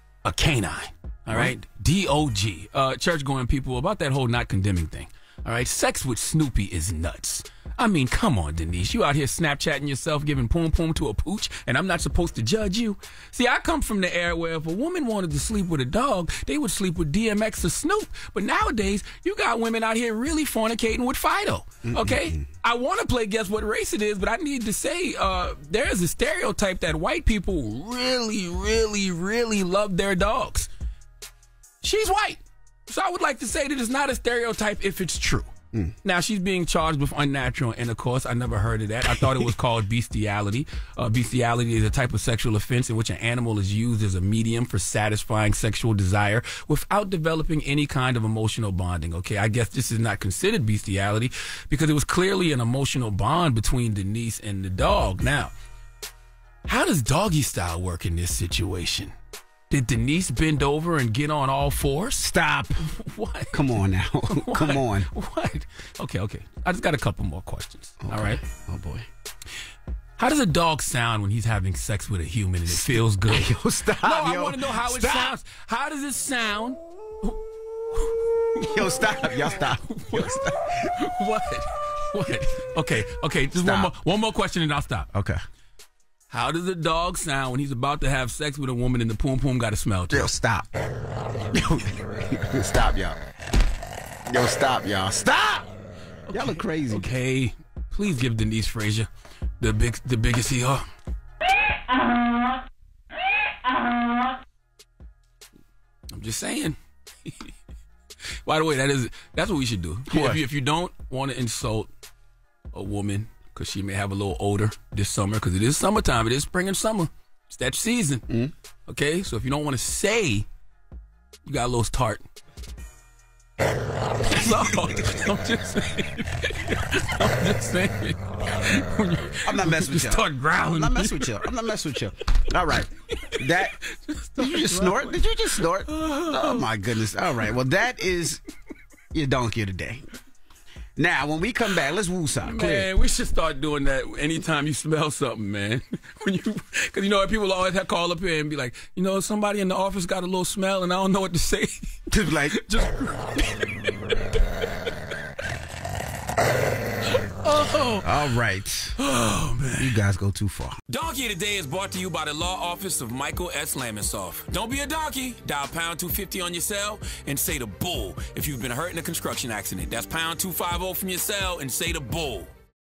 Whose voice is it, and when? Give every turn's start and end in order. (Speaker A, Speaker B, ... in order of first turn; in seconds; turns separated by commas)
Speaker A: 0.2-30.7, Speaker B: 21.9-22.4, Speaker A: 31.8-35.5, Speaker A: 36.0-55.5, Speaker A: 56.7-59.1, Speaker A: 59.7-63.6, Speaker B: 62.2-62.8, Speaker B: 63.5-65.1, Speaker A: 64.3-68.4, Speaker B: 68.0-69.1, Speaker A: 70.2-77.4, Speaker B: 72.7-75.3, Speaker A: 77.9-85.1, Speaker B: 78.6-80.8, Speaker B: 83.6-83.9, Speaker B: 85.1-85.4, Speaker A: 86.3-90.3, Speaker B: 90.1-90.7, Speaker B: 91.5-93.2, Speaker B: 94.3-95.7, Speaker A: 96.3-99.1, Speaker B: 96.3-97.1, Speaker A: 99.6-100.8, Speaker A: 106.1-107.5, Speaker A: 108.4-111.9, Speaker B: 110.1-110.4, Speaker A: 112.7-118.2, Speaker A: 118.9-120.5, Speaker A: 121.5-122.2, Speaker A: 124.2-131.5, Speaker B: 129.4-133.8, Speaker A: 134.0-136.7, Speaker B: 134.4-138.4, Speaker B: 139.1-140.1, Speaker B: 140.9-142.9, Speaker A: 142.4-151.7, Speaker B: 152.1-152.6, Speaker A: 152.5-154.9, Speaker A: 157.1-158.3, Speaker B: 158.0-158.9, Speaker A: 159.0-160.0, Speaker B: 159.8-160.8, Speaker A: 160.9-172.5